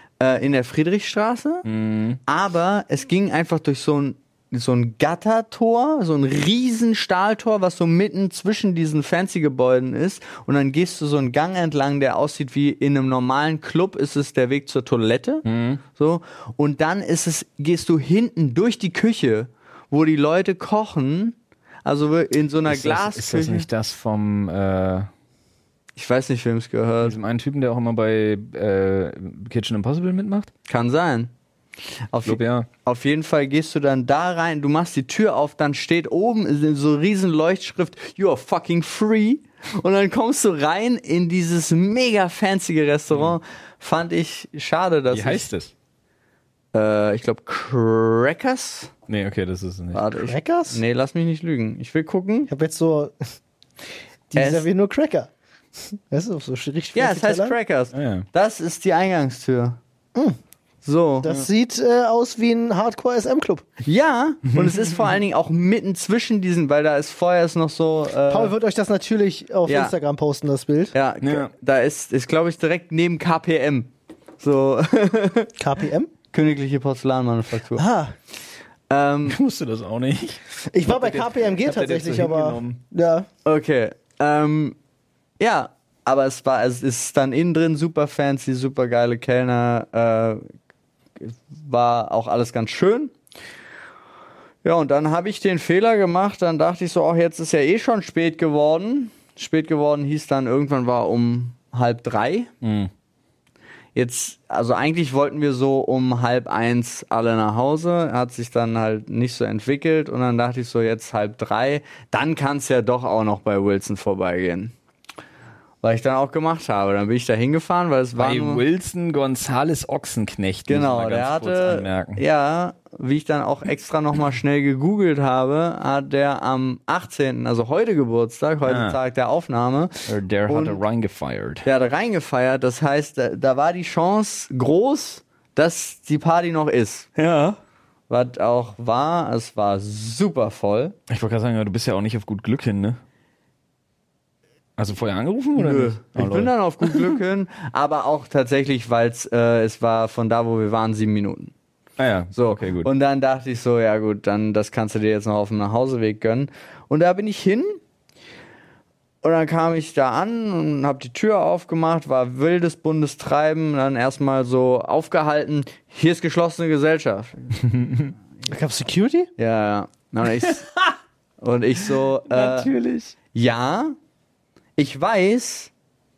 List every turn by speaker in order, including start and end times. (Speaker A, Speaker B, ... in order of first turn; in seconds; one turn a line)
Speaker A: 0.2-1.6
Speaker B: 1.6-2.2
Speaker A: 2.3-23.7
Speaker B: 15.4-15.8
Speaker B: 22.7-25.1
Speaker A: 26.0-27.2
Speaker B: 27.0-30.5
Speaker A: 30.7-31.3
Speaker A: 32.1-45.5
Speaker B: 32.3-32.7
Speaker B: 43.1-43.4
Speaker B: 45.1-45.7
Speaker A: 46.7-48.9
Speaker B: 49.1-50.1
Speaker A: 49.9-52.5
Speaker C: 50.2-50.8
Speaker C: 52.5-53.1
Speaker C: 54.3-55.3
Speaker A: 54.4-54.7
Speaker C: 56.1-57.5
Speaker A: 57.0-59.8
Speaker B: 57.9-58.2
Speaker A: 60.8-61.3
Speaker C: 61.2-63.6
Speaker A: 63.8-68.5
Speaker B: 64.5-64.9
Speaker C: 68.3-70.9
Speaker A: 69.7-69.9
Speaker A: 70.9-73.9
Speaker B: 71.2-71.5
Speaker A: 74.4-75.5
Speaker C: 75.6-76.1
Speaker A: 76.3-77.8
Speaker C: 77.8-78.1
Speaker A: 78.9-79.4
Speaker B: 79.3-82.8
Speaker C: 80.7-83.3
Speaker A: 83.5-84.8
Speaker A: 85.4-90.5
Speaker A: 91.2-93.1
Speaker A: 94.6-102.5
Speaker B: 102.6-102.9
Speaker A: 104.0-114.7
Speaker A: 115.8-118.6
Speaker B: 118.2-122.2
Speaker A: 120.7-130.8
Speaker B: 128.7-129.0
Speaker B: 130.1-131.7
Speaker A: 131.6-137.1
Speaker B: 137.2-137.6
Speaker A: 138.1-140.9
Speaker B: 141.1-143.0
Speaker B: 144.8-147.2
Speaker A: 145.6-151.5
Speaker B: 152.0-152.9
Speaker A: 152.3-157.8
Speaker A: 159.2-167.5
Speaker B: 167.6-168.1
Speaker C: 168.5-169.3
Speaker A: 169.4-170.7
Speaker B: 170.2-170.9
Speaker A: 171.4-172.7
Speaker B: 172.3-173.2
Speaker A: 173.3-173.9
Speaker A: 174.8-175.7